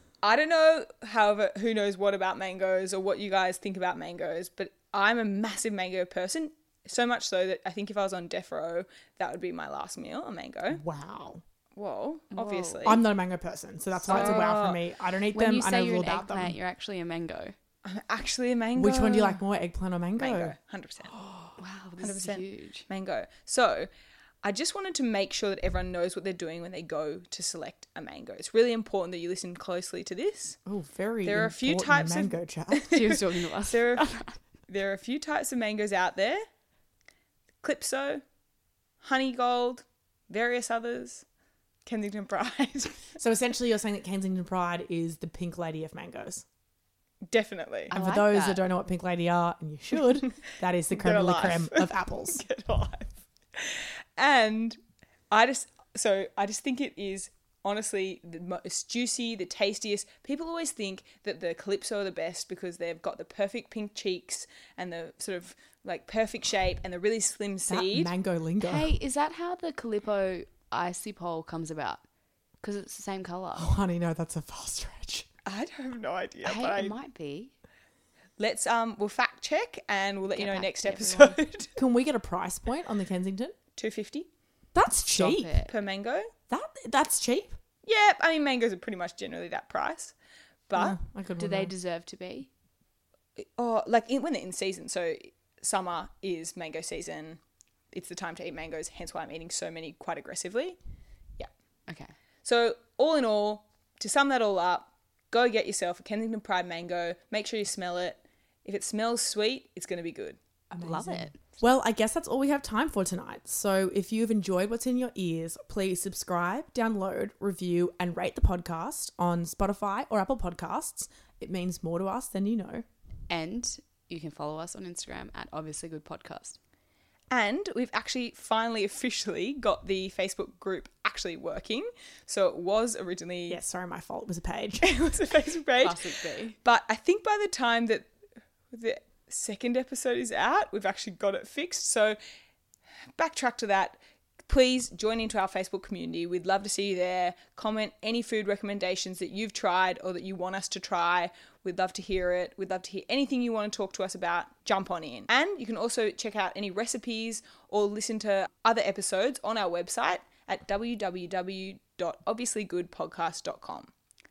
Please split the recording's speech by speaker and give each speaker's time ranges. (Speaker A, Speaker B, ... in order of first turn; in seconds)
Speaker A: 0.2-10.8, 11.8-13.0, 14.1-14.8, 17.8-19.4, 20.2-21.1, 22.0-23.9, 24.4-30.6, 31.2-34.1, 34.7-36.4, 37.6-38.2, 39.0-41.2, 41.8-43.1, 47.2-47.9, 50.9-54.8, 55.3-68.1, 75.5-76.9, 78.4-81.8, 83.8-84.3, 85.7-86.3, 87.8-90.1, 90.7-91.0, 93.4-97.4, 97.9-100.8, 102.4-110.4, 127.3-133.6, 134.8-136.0, 136.6-138.1, 138.7-142.2, 143.2-163.9
Speaker B: 10.7-11.4, 12.8-16.5, 18.8-20.5, 30.6-33.0, 43.2-46.4, 47.9-52.4, 67.7-68.9, 73.5-75.3, 81.8-83.5, 84.7-85.5, 86.5-87.6, 90.7-91.7, 110.7-122.8, 133.5-134.9
Speaker C: 12.3-13.0, 14.1-14.6, 15.3-17.5, 21.6-22.9, 32.8-34.4, 47.9-48.6, 68.6-72.0, 72.6-73.7, 76.4-77.5, 80.3-81.4, 85.1-85.7, 91.4-92.5, 101.9-102.1, 110.8-111.4, 123.3-126.6, 135.8-136.6